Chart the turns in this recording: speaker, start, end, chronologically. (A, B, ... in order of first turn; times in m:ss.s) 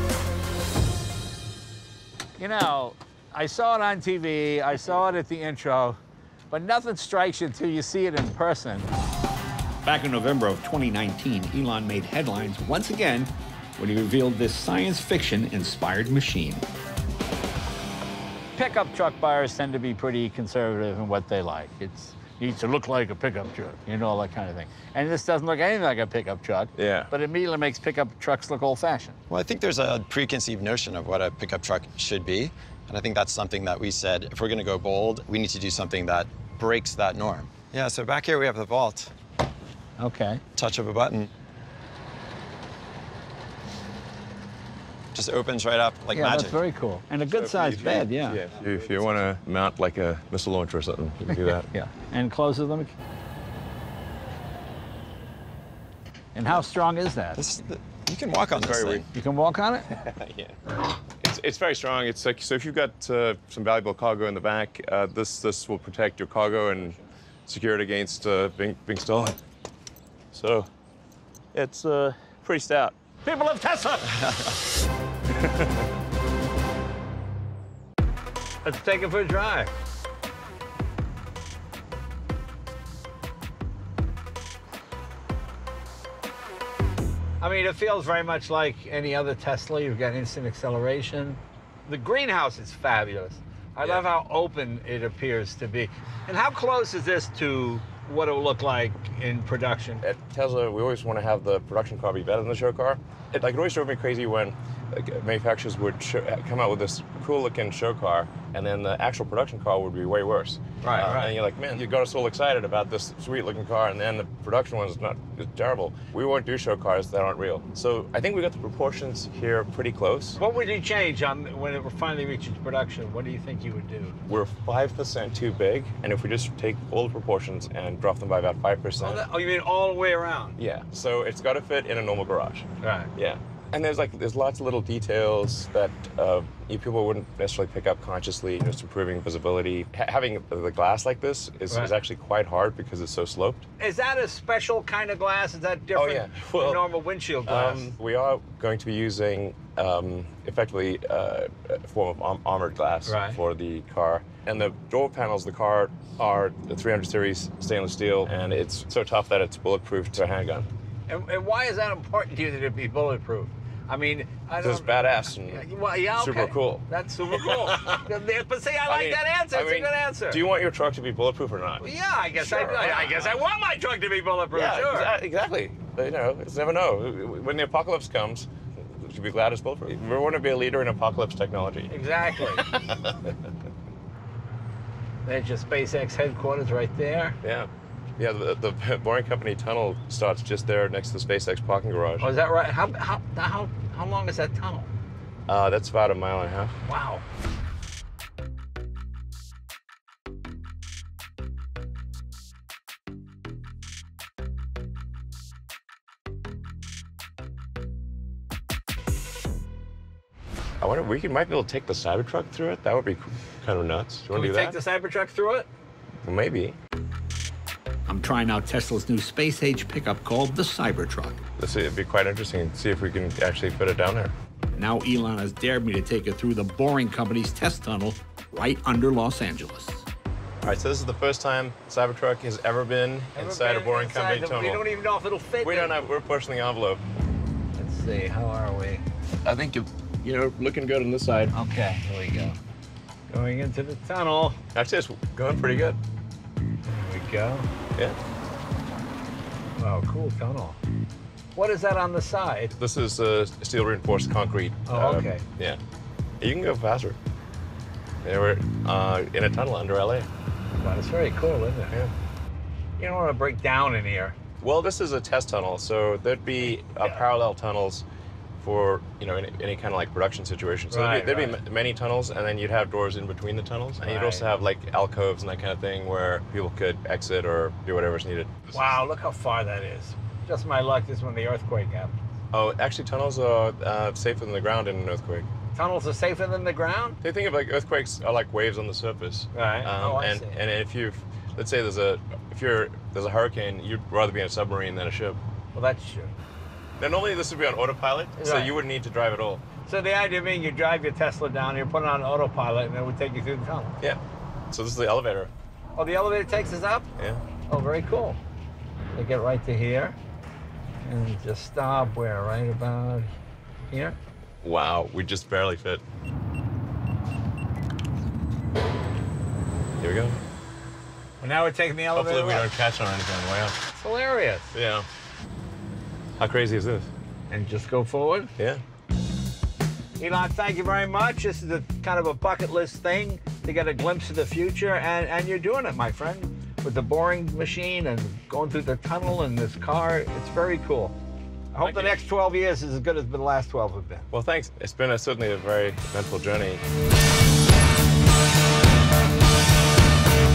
0:02.4-0:06.0 A
0:06.5-0:08.9 A
0:09.8-0:16.6 A
0:18.6-0:29.2 A
0:26.8-0:27.1 B
0:29.3-0:39.1 C
0:40.0-0:40.4 A
0:40.6-0:41.3 C
0:45.1-0:46.6 C
0:46.1-0:48.4 A
0:47.3-0:51.7 B
0:51.7-0:52.9 A
0:56.3-0:57.4 A
0:57.4-0:59.1 C
0:58.7-0:59.0 B
0:59.1-0:59.9 A
0:59.9-1:00.6 B
1:01.2-1:09.4 B
1:10.3-1:10.7 B
1:11.5-1:12.9 B
1:13.2-1:14.3 A
1:18.6-1:19.7 A
1:27.4-1:40.0 A
1:40.0-2:00.4 B
1:50.8-1:51.3 A
2:00.4-2:04.2 A
2:04.3-2:09.2 B
2:09.0-2:10.6 A
2:10.6-2:23.7 B
2:12.8-2:13.1 A
2:23.8-2:27.9 A
2:26.0-2:26.9 B
2:27.4-2:40.7 B
2:33.0-2:33.4 A
2:41.1-2:50.4 A
2:44.6-2:48.0 B
2:48.9-2:53.3 B
2:51.8-2:55.1 A
2:54.5-3:03.3 B
3:01.9-3:02.7 A
3:05.2-3:07.4 A
3:07.4-3:12.3 B
3:12.2-3:14.9 A
3:15.5-3:16.8 B
3:16.8-3:17.2 A
3:30.8-3:34.8 B
3:34.3-3:35.7 A
3:36.2-3:36.8 B
3:38.1-3:41.4 A
3:41.6-3:44.3 B
3:44.8-3:50.0 A
3:50.6-3:54.8 B
3:53.3-3:56.0 A
3:55.6-3:57.0 B
3:57.8-3:59.0 A
3:59.4-4:01.5 B
4:01.5-4:02.6 A
4:03.3-4:04.6 A
4:04.7-4:06.0 B
4:06.8-4:07.7 A
4:09.8-4:10.8 A
4:11.5-4:12.7 A
4:12.8-4:15.8 B
4:14.9-4:15.4 A
4:16.4-4:17.2 B
4:18.2-4:20.3 B
4:20.8-4:22.0 A
4:23.0-4:24.4 A
4:24.6-4:28.0 B
4:28.6-4:39.0 B
4:30.9-4:31.6 A
4:34.0-4:34.4 A
4:38.7-4:42.1 A
4:42.5-4:45.5 B
4:45.7-4:47.2 A
4:47.2-4:55.4 B
4:49.5-4:50.6 A
4:55.7-4:56.3 A
4:57.0-4:59.6 B
4:58.4-4:58.8 A
4:59.8-5:03.9 A
5:04.7-5:05.5 B
5:06.0-5:07.1 A
5:07.7-5:08.4 A
5:09.1-5:10.2 A
5:11.0-5:13.3 A
5:13.9-5:14.2 A
5:14.6-5:16.0 B
5:20.0-5:20.4 B
5:21.4-5:22.7 A
5:22.1-5:23.8 B
5:23.9-5:24.7 A
5:24.7-5:25.1 B
5:26.4-5:27.1 B
5:27.5-5:28.5 A
5:30.2-5:41.1 A
5:41.7-5:44.3 A
5:41.8-5:42.2 B
5:44.3-5:46.8 B